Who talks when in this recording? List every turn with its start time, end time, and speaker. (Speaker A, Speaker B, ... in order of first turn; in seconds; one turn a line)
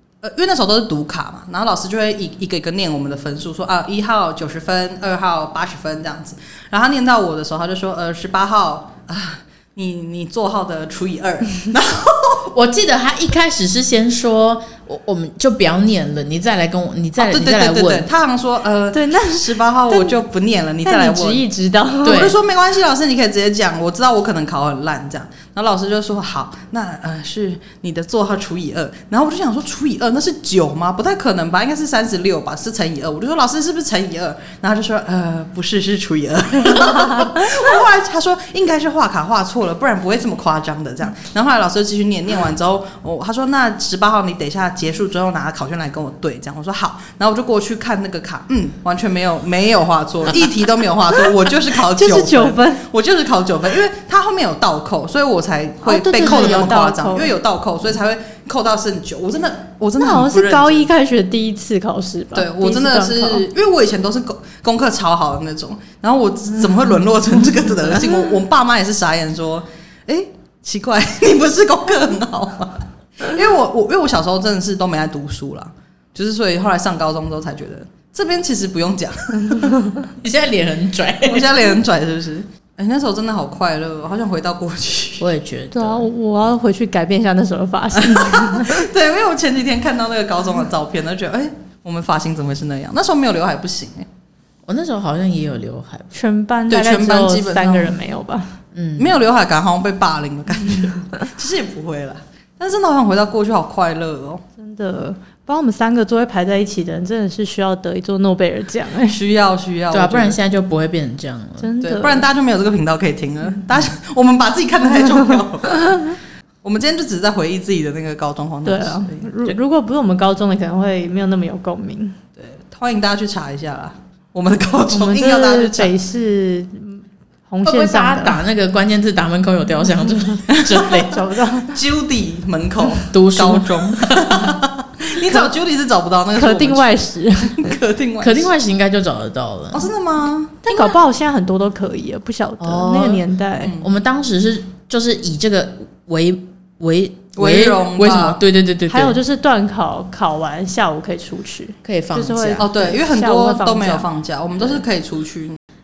Speaker A: 0.2-12.5
Speaker B: 12.5-18.1
Speaker A: 17.2-21.4
Speaker C: 18.9-20.1
Speaker C: 20.8-22.3
Speaker A: 22.0-60.9
Speaker B: 22.0-22.4
Speaker C: 51.9-52.8
Speaker C: 55.8-57.3
Speaker C: 60.0-63.4
Speaker A: 62.3-79.9
Speaker B: 80.2-81.5
Speaker A: 81.2-85.3
Speaker B: 85.2-86.1
Speaker C: 85.7-88.9
Speaker A: 88.0-94.1
Speaker B: 94.7-96.1
Speaker C: 96.1-98.5
Speaker A: 96.7-98.0
Speaker B: 98.7-99.2
Speaker A: 99.0-104.4
Speaker C: 104.6-109.2
Speaker A: 109.1-110.4
Speaker B: 109.9-111.7
Speaker C: 111.6-112.3
Speaker A: 111.8-116.1
Speaker A: 116.6-119.5
Speaker C: 118.7-122.2
Speaker A: 122.4-125.9
Speaker C: 124.9-128.4
Speaker B: 127.6-131.2
Speaker A: 130.5-131.0
Speaker C: 130.8-131.8
Speaker A: 131.7-138.5
Speaker B: 133.1-134.6
Speaker C: 135.1-135.5
Speaker C: 136.4-137.8
Speaker B: 138.2-139.9
Speaker A: 139.7-140.6
Speaker C: 140.7-143.8
Speaker B: 140.7-140.9
Speaker B: 142.6-143.2
Speaker A: 143.6-143.9
Speaker B: 143.8-149.2
Speaker A: 147.4-148.4
Speaker C: 148.9-154.1
Speaker B: 151.8-152.7
Speaker A: 152.6-155.6